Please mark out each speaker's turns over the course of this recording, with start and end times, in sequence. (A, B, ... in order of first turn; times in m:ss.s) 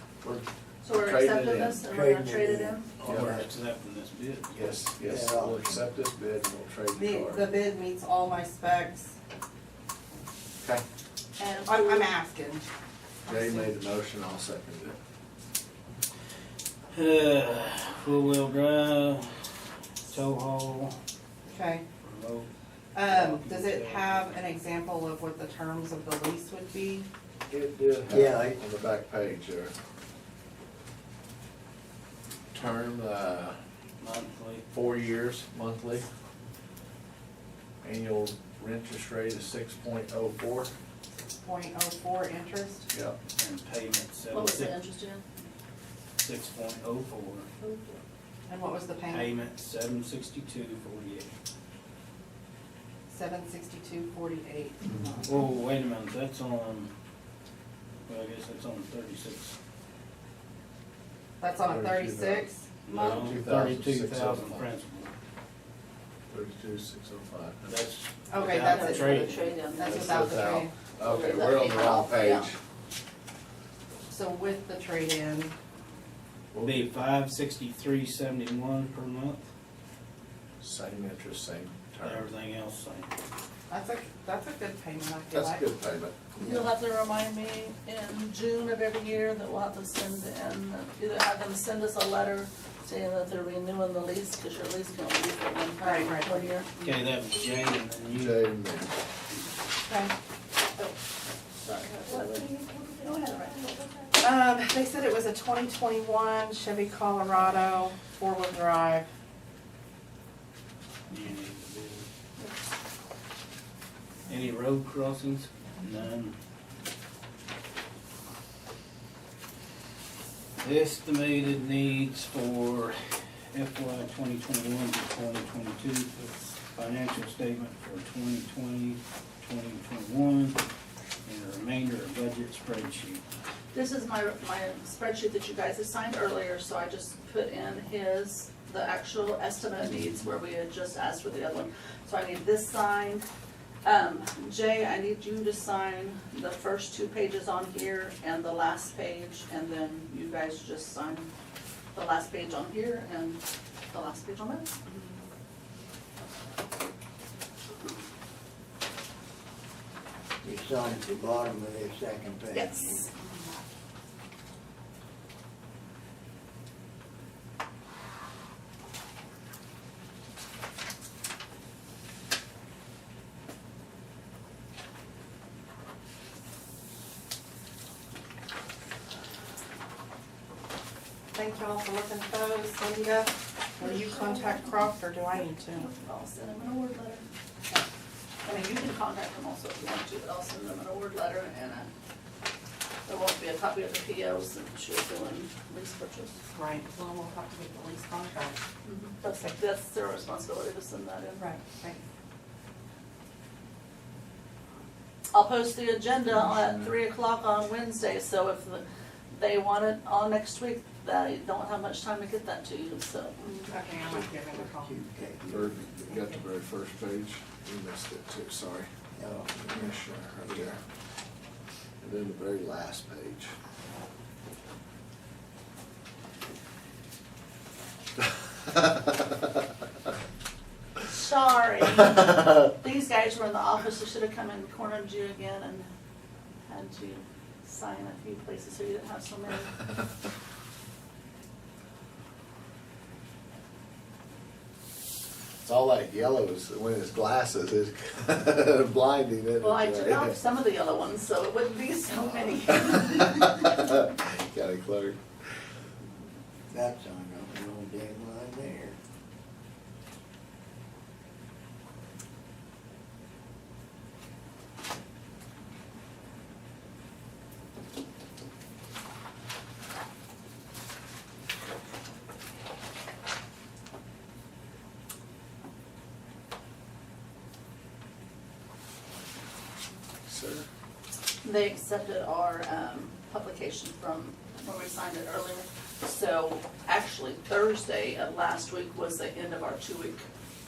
0:00.2-0:01.8 A
0:00.8-0:02.9 B
0:01.9-0:03.5 C
0:03.0-0:04.6 D
0:03.0-0:03.5 A
0:04.5-0:07.5 A
0:05.0-0:05.8 C
0:06.9-0:09.1 E
0:11.4-0:12.1 B
0:11.7-0:12.6 E
0:13.2-0:15.0 A
0:16.9-0:19.5 D
0:20.1-0:21.0 D
0:21.4-0:21.8 E
0:22.0-0:22.5 D
0:22.9-0:27.1 E
0:23.0-0:24.2 D
0:27.5-0:29.7 A
0:28.1-0:28.6 C
0:32.5-0:33.6 A
0:34.0-0:34.6 D
0:34.7-0:36.0 A
0:37.8-0:40.7 A
0:41.4-0:42.9 E
0:42.9-0:43.2 A
0:43.4-0:44.7 D
0:44.3-0:45.2 B
0:46.2-0:47.5 D
0:47.6-0:48.0 B
0:48.5-0:49.3 E
0:49.1-0:51.3 D
0:53.1-0:55.2 E
0:55.2-0:56.9 D
0:58.1-0:59.5 D
1:01.4-1:03.3 E
1:01.6-1:04.7 A
1:02.8-1:05.1 D
1:06.3-1:07.8 A
1:07.7-1:10.3 D
1:08.3-1:10.8 E
1:08.6-1:10.0 B
1:09.8-1:12.6 A
1:11.0-1:12.5 B
1:14.1-1:15.6 E
1:16.5-1:17.0 A
1:16.6-1:19.4 D
1:20.6-1:22.3 A
1:22.0-1:23.1 D
1:23.7-1:25.7 E
1:25.3-1:26.2 A
1:26.4-1:36.7 B
1:26.4-1:26.7 E
1:35.8-1:36.4 E
1:36.8-1:38.5 D
1:38.1-1:39.0 A
1:39.9-1:40.1 E
1:41.6-1:44.2 B
1:44.2-1:49.1 E
1:51.1-1:52.1 D
1:54.3-1:56.4 D
2:00.6-2:10.6 D
2:11.2-2:13.2 D
2:13.7-2:23.2 B
2:23.8-2:31.3 B
2:31.9-2:34.8 B
2:40.4-2:43.0 C
2:42.5-2:43.1 B
3:01.3-3:05.9 E
3:03.8-3:07.2 B
3:08.4-3:11.9 B
3:13.1-3:16.4 B
3:16.5-3:18.6 E
3:18.8-3:21.4 B
3:21.4-3:22.0 E
3:25.3-3:33.4 B
3:33.4-3:35.0 E
3:34.4-3:36.1 C
3:35.5-3:38.9 A
3:39.2-3:39.6 C
3:39.5-3:40.8 A
3:42.0-3:43.5 A
3:48.7-3:49.1 A
3:51.0-3:55.9 B
3:56.7-3:59.8 B
4:05.6-4:10.4 A
4:09.6-4:13.7 B
4:12.8-4:15.2 A
4:16.7-4:19.0 C
4:40.3-4:40.7 A
4:41.4-4:50.3 B